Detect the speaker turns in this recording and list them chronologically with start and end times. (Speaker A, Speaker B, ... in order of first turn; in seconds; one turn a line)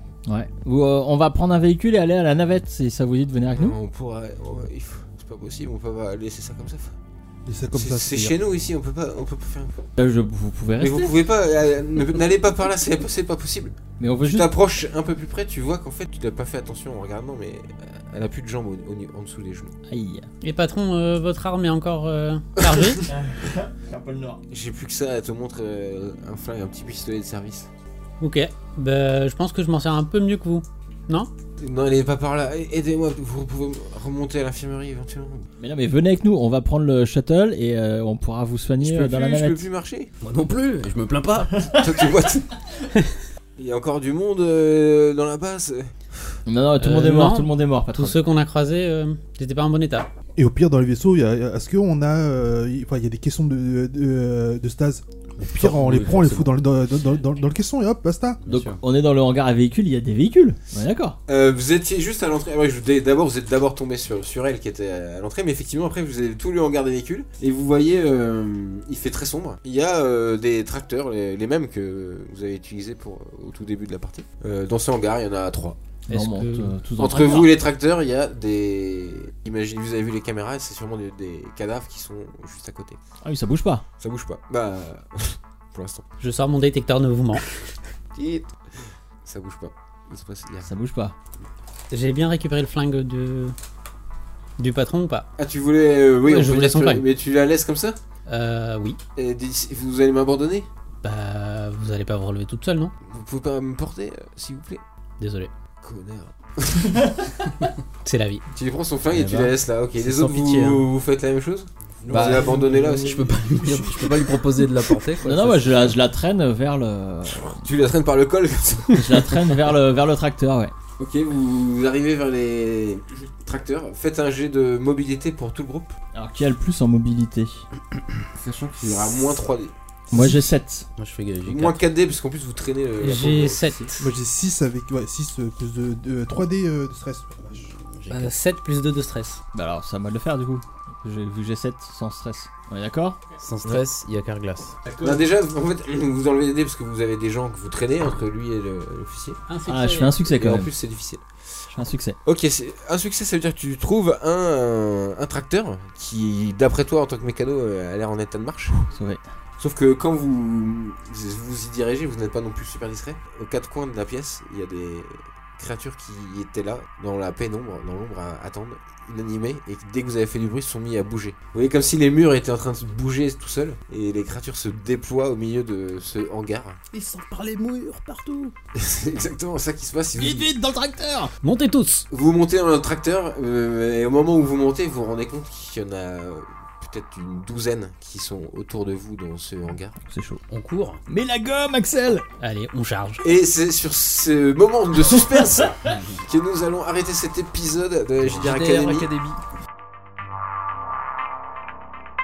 Speaker A: 0.3-3.8
Speaker B: 3.5-7.0
Speaker C: 7.5-8.4
Speaker B: 7.7-9.9
Speaker A: 10.0-11.1
Speaker B: 10.8-19.7
Speaker A: 14.0-14.5
Speaker A: 19.9-20.3
Speaker D: 20.4-23.1
Speaker B: 22.6-22.9
Speaker A: 23.1-24.4
Speaker B: 24.5-27.7
Speaker D: 28.2-31.3
Speaker B: 31.6-35.5
Speaker A: 35.6-39.6
Speaker B: 38.8-40.1
Speaker E: 40.2-41.7
Speaker B: 41.6-42.5
Speaker B: 43.6-46.3
Speaker A: 46.5-48.2
Speaker D: 46.8-50.1
Speaker C: 50.4-58.4
Speaker E: 55.4-56.5
Speaker E: 58.4-58.8
Speaker A: 58.5-61.2
Speaker B: 61.3-75.8
Speaker A: 76.1-77.5
Speaker D: 76.1-76.7
Speaker B: 77.0-83.0
Speaker A: 83.2-83.8
Speaker B: 84.0-86.0
Speaker D: 86.2-87.5
Speaker B: 88.1-88.5
Speaker B: 89.2-90.7
Speaker A: 90.6-91.1
Speaker D: 91.9-93.6
Speaker D: 94.6-95.3
Speaker B: 95.4-98.0
Speaker D: 96.3-97.0
Speaker D: 98.3-99.0
Speaker B: 99.2-100.7
Speaker D: 101.0-102.9
Speaker B: 103.0-104.8
Speaker D: 105.2-105.5
Speaker B: 105.8-107.2
Speaker D: 108.0-108.4
Speaker B: 108.5-113.3
Speaker E: 109.1-110.8
Speaker A: 112.1-114.2
Speaker E: 112.1-116.0
Speaker A: 115.2-117.6
Speaker B: 117.3-119.3
Speaker A: 118.9-120.7
Speaker B: 121.0-126.0
Speaker A: 126.1-127.6
Speaker B: 128.3-129.7
Speaker C: 130.1-130.4
Speaker A: 130.1-130.9
Speaker E: 131.0-131.8
Speaker B: 131.4-133.9
Speaker D: 133.0-134.1
Speaker C: 134.0-137.7
Speaker E: 137.9-138.3
Speaker D: 138.1-139.4
Speaker A: 139.5-143.2
Speaker E: 143.4-144.8
Speaker B: 145.0-149.4
Speaker D: 149.5-150.1
Speaker A: 149.7-150.7
Speaker B: 150.2-151.2
Speaker A: 151.7-152.2
Speaker B: 152.2-158.7
Speaker A: 158.8-159.2
Speaker B: 159.6-176.8
Speaker E: 176.9-178.5
Speaker B: 178.7-180.5
Speaker A: 180.2-181.3
Speaker D: 181.4-182.1
Speaker B: 182.1-189.9
Speaker A: 190.1-190.4
Speaker E: 190.5-191.0
Speaker A: 191.1-192.2
Speaker D: 192.4-193.2
Speaker B: 193.2-199.1
Speaker E: 195.8-196.2
Speaker E: 198.2-199.4